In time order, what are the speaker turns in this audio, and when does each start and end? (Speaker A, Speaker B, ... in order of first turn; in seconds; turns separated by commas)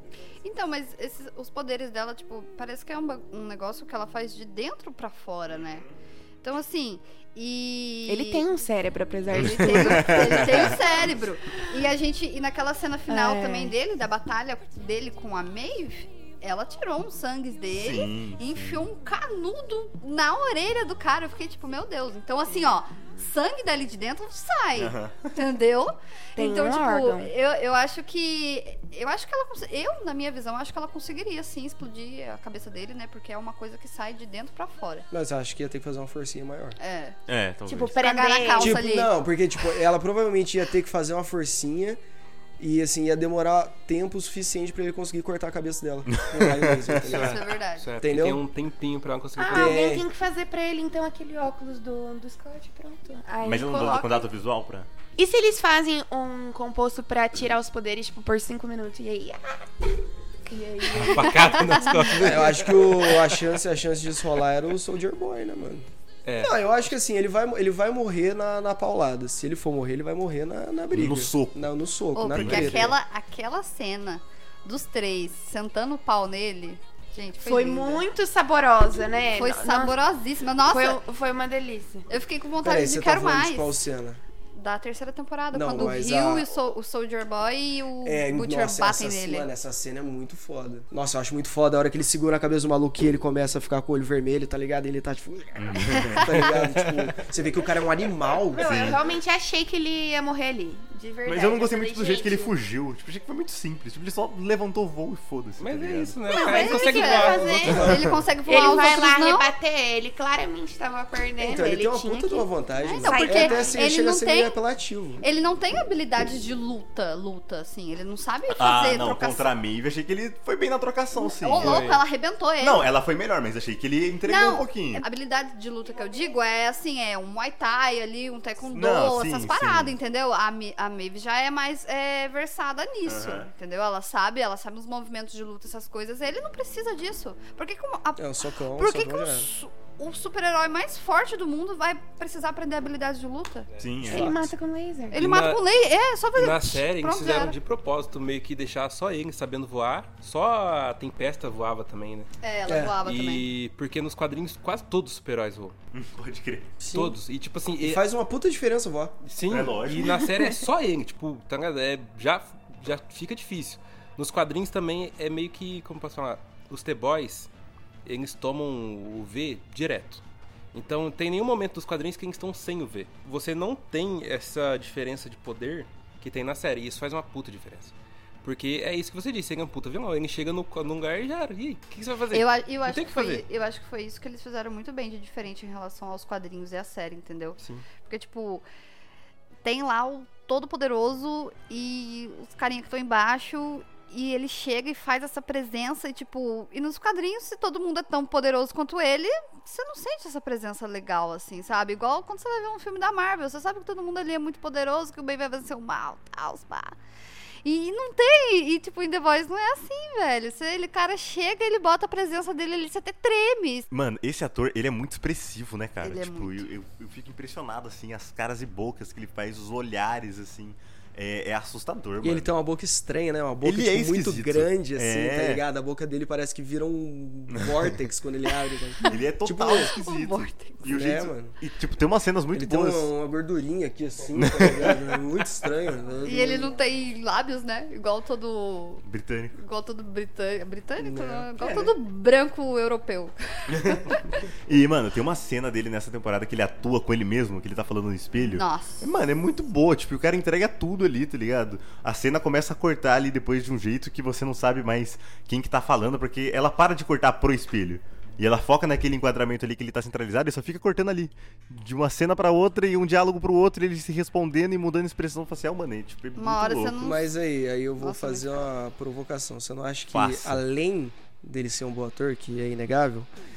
Speaker A: 0.4-5.8, Speaker A: 6.4-8.4, Speaker B: 8.1-11.7, Speaker C: 9.3-10.8, Speaker A: 9.3-35.0, Speaker B: 13.1-13.7, Speaker C: 17.7-18.8, Speaker C: 24.8-25.3, Speaker B: 26.4-27.3, Speaker D: 35.1-36.8, Speaker A: 36.8-37.2, Speaker C: 37.3-38.0, Speaker B: 37.7-38.8, Speaker A: 38.0-39.1, Speaker D: 38.6-42.0, Speaker D: 42.6-48.4, Speaker C: 46.2-47.3, Speaker A: 47.1-47.9, Speaker E: 47.2-50.0, Speaker B: 49.4-54.2, Speaker D: 49.5-50.0, Speaker C: 53.4-54.9, Speaker B: 55.2-59.7, Speaker B: 60.5-62.0, Speaker E: 60.9-63.4, Speaker D: 62.2-65.9, Speaker E: 66.2-66.7, Speaker D: 66.4-72.9, Speaker C: 70.9-71.7, Speaker A: 72.1-78.0, Speaker C: 72.3-72.9, Speaker B: 77.4-80.0, Speaker A: 79.3-81.0, Speaker B: 80.6-82.0, Speaker A: 82.1-83.8, Speaker D: 82.6-84.2, Speaker A: 84.5-89.5, Speaker D: 85.5-86.5, Speaker D: 88.0-98.7, Speaker C: 95.6-96.5, Speaker B: 98.5-102.5, Speaker C: 98.6-99.0, Speaker C: 101.2-106.3, Speaker E: 105.6-107.9, Speaker A: 106.3-109.5, Speaker B: 106.4-107.9, Speaker D: 107.6-108.2, Speaker B: 108.4-112.5, Speaker D: 111.4-115.2, Speaker A: 112.8-114.6, Speaker B: 113.0-113.8, Speaker A: 115.2-119.5, Speaker C: 118.5-121.9, Speaker A: 121.2-122.9, Speaker E: 121.6-122.0, Speaker C: 122.6-125.0, Speaker A: 124.2-143.7, Speaker C: 128.7-129.9, Speaker C: 133.1-133.5, Speaker D: 138.2-139.5, Speaker C: 143.8-144.5, Speaker B: 144.0-145.2, Speaker A: 145.1-147.5, Speaker E: 145.1-145.6, Speaker E: 146.3-152.3, Speaker A: 152.4-153.5, Speaker D: 152.7-153.0, Speaker E: 153.0-155.7, Speaker C: 155.9-156.7, Speaker D: 156.8-157.2, Speaker E: 156.9-158.0, Speaker D: 157.8-159.2, Speaker E: 159.2-167.5, Speaker C: 159.5-160.2, Speaker E: 168.0-170.2, Speaker E: 170.7-183.4, Speaker A: 182.3-188.6, Speaker E: 187.6-187.8, Speaker A: 189.6-206.9, Speaker A: 207.6-213.9, Speaker C: 213.9-222.5, Speaker A: 216.0-216.7, Speaker D: 222.2-229.9, Speaker C: 223.6-225.6, Speaker C: 229.0-233.1, Speaker A: 229.6-230.8, Speaker D: 230.8-231.6, Speaker D: 232.5-236.8, Speaker C: 234.4-235.0, Speaker A: 236.2-244.4, Speaker C: 239.0-239.5, Speaker D: 241.0-241.9, Speaker C: 243.7-244.1, Speaker C: 244.7-267.0, Speaker A: 248.4-249.1, Speaker A: 266.4-267.3, Speaker D: 267.0-273.3, Speaker A: 268.0-268.6, Speaker C: 270.1-270.6